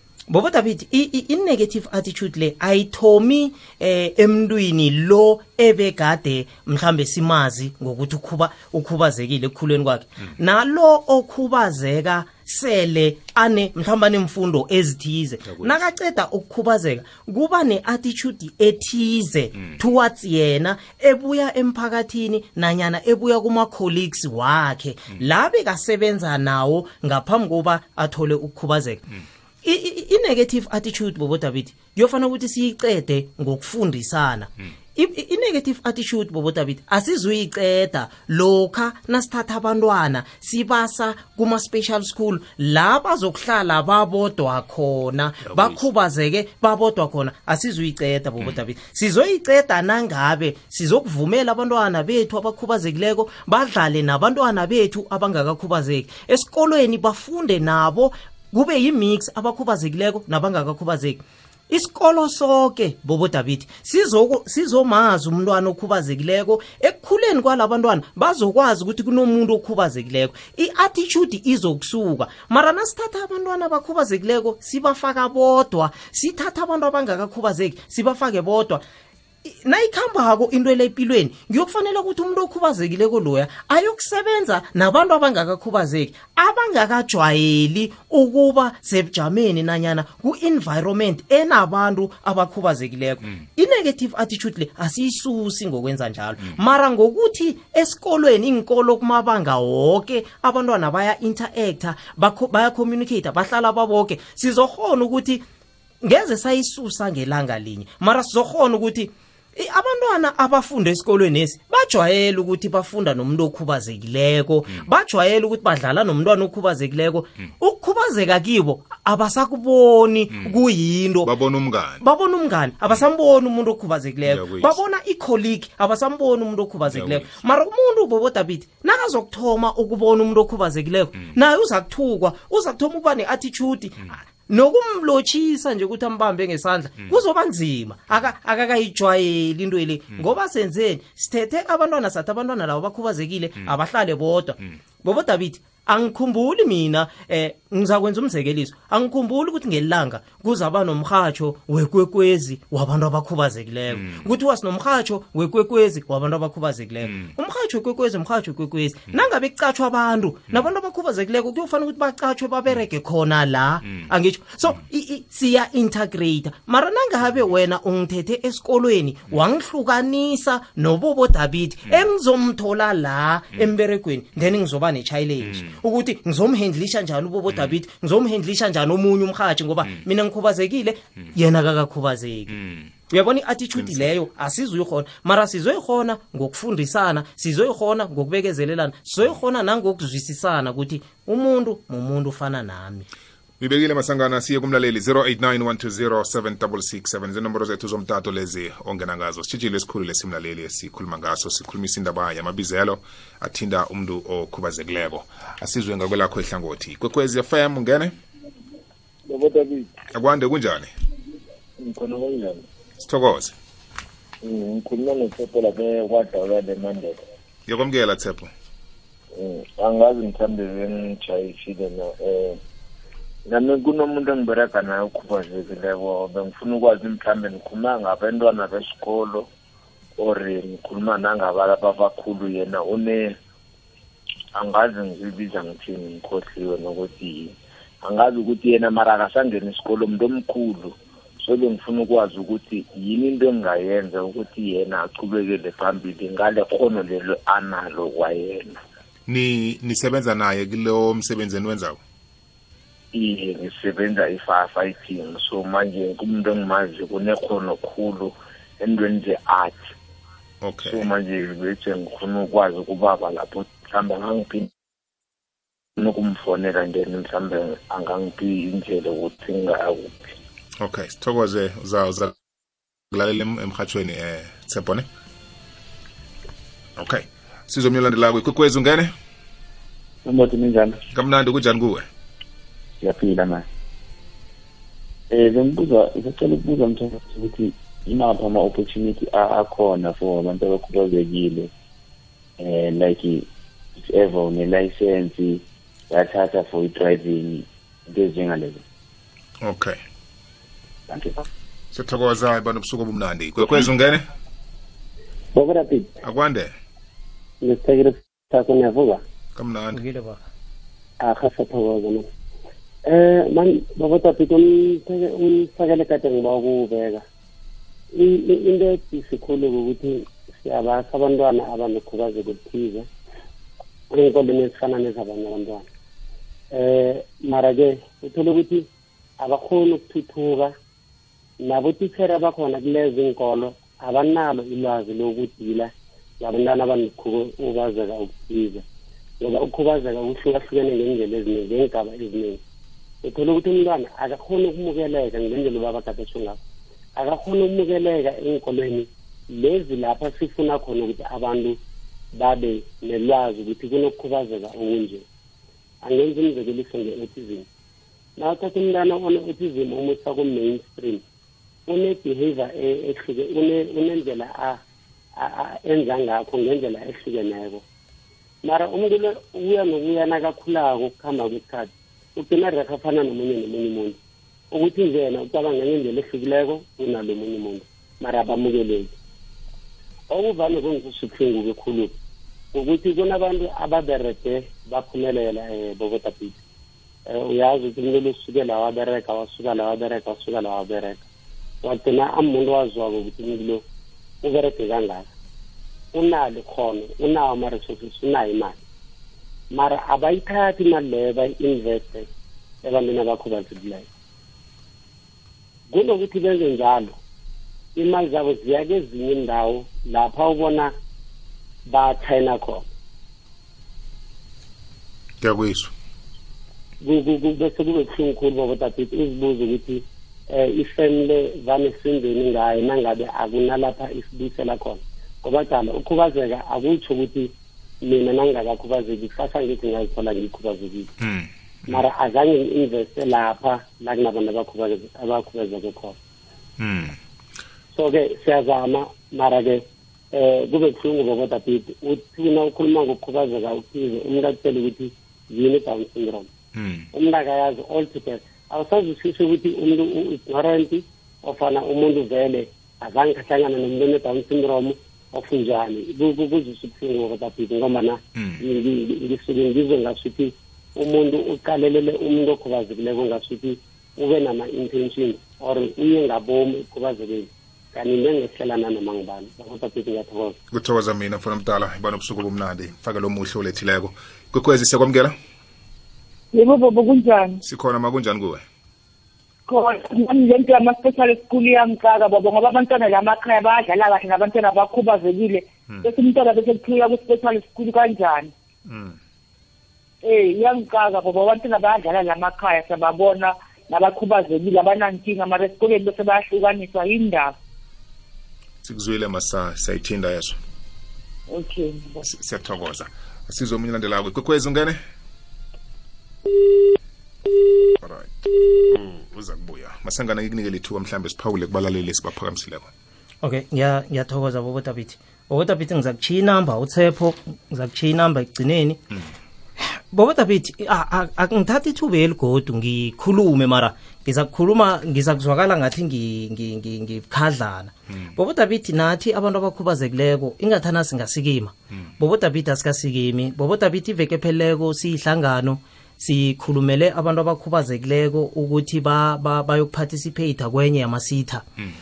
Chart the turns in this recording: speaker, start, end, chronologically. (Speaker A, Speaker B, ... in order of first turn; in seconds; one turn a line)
Speaker A: 0.3-29.0
Speaker B: 15.5-15.9
Speaker A: 29.6-78.8
Speaker B: 45.5-45.8
Speaker A: 79.4-105.4
Speaker A: 106.0-121.3
Speaker B: 121.2-122.0
Speaker A: 122.0-182.6
Speaker B: 124.2-124.8
Speaker B: 126.9-127.4
Speaker B: 153.9-154.3
Speaker B: 175.4-175.8
Speaker B: 177.5-177.8
Speaker B: 182.6-182.8
Speaker A: 183.1-193.1
Speaker B: 183.8-184.1
Speaker B: 193.6-208.1
Speaker C: 209.3-209.9
Speaker B: 210.1-210.9
Speaker C: 211.8-212.6
Speaker B: 213.0-213.5
Speaker C: 214.4-217.2
Speaker B: 217.7-218.5
Speaker C: 219.3-222.6
Speaker C: 223.5-229.5
Speaker C: 230.2-233.3
Speaker C: 234.5-248.8
Speaker B: 249.3-252.0
Speaker C: 253.1-259.8
Speaker B: 260.6-261.1
Speaker C: 260.8-264.7
Speaker C: 266.0-270.2
Speaker B: 270.8-272.4
Speaker B: 273.1-275.1
Speaker B: 276.9-279.1
Speaker D: 280.2-281.0
Speaker B: 281.1-282.1
Speaker D: 283.0-283.6
Speaker D: 285.3-291.7
Speaker D: 292.6-293.5
Speaker D: 294.0-298.8
Speaker B: 299.6-300.0
Speaker D: 301.1-301.4
Speaker B: 301.9-304.3
Speaker E: 305.5-306.1
Speaker B: 306.2-306.7
Speaker E: 307.6-309.2
Speaker B: 309.5-310.0
Speaker A: 309.9-310.4
Speaker E: 311.2-312.3
Speaker E: 313.0-317.2
Speaker E: 318.1-323.1
Speaker E: 324.1-325.8
Speaker E: 326.7-328.9
Speaker E: 329.4-330.7
Speaker E: 331.6-338.8
Speaker E: 339.4-342.6
Speaker E: 343.2-346.6
Speaker E: 347.1-351.8
Speaker E: 352.3-355.2
Speaker E: 356.0-357.7
Speaker E: 358.4-361.2
Speaker E: 361.9-364.8
Speaker E: 365.4-367.8
Speaker E: 368.6-374.2
Speaker E: 374.7-379.1
Speaker E: 380.3-382.1
Speaker E: 382.7-386.6
Speaker E: 387.3-391.2
Speaker E: 391.8-393.8
Speaker E: 394.4-395.3
Speaker E: 396.1-398.8
Speaker E: 399.7-402.3
Speaker E: 402.8-404.1
Speaker E: 405.9-407.1
Speaker E: 407.9-410.9
Speaker E: 411.9-412.8
Speaker B: 415.4-415.9
Speaker E: 417.0-431.1
Speaker B: 431.2-432.1
Speaker E: 431.9-436.1
Speaker B: 436.8-437.2
Speaker E: 437.9-446.5
Speaker B: 446.7-447.1
Speaker E: 447.1-470.6
Speaker B: 458.4-458.6
Speaker B: 470.7-475.3
Speaker F: 476.5-477.6
Speaker B: 477.6-478.6
Speaker F: 479.7-488.5
Speaker B: 488.9-489.2
Speaker F: 490.2-497.5
Speaker B: 498.8-500.6
Speaker F: 501.5-502.2
Speaker B: 502.2-505.0
Speaker B: 508.0-512.9
Speaker A: 513.4-519.0
Speaker A: 519.8-541.6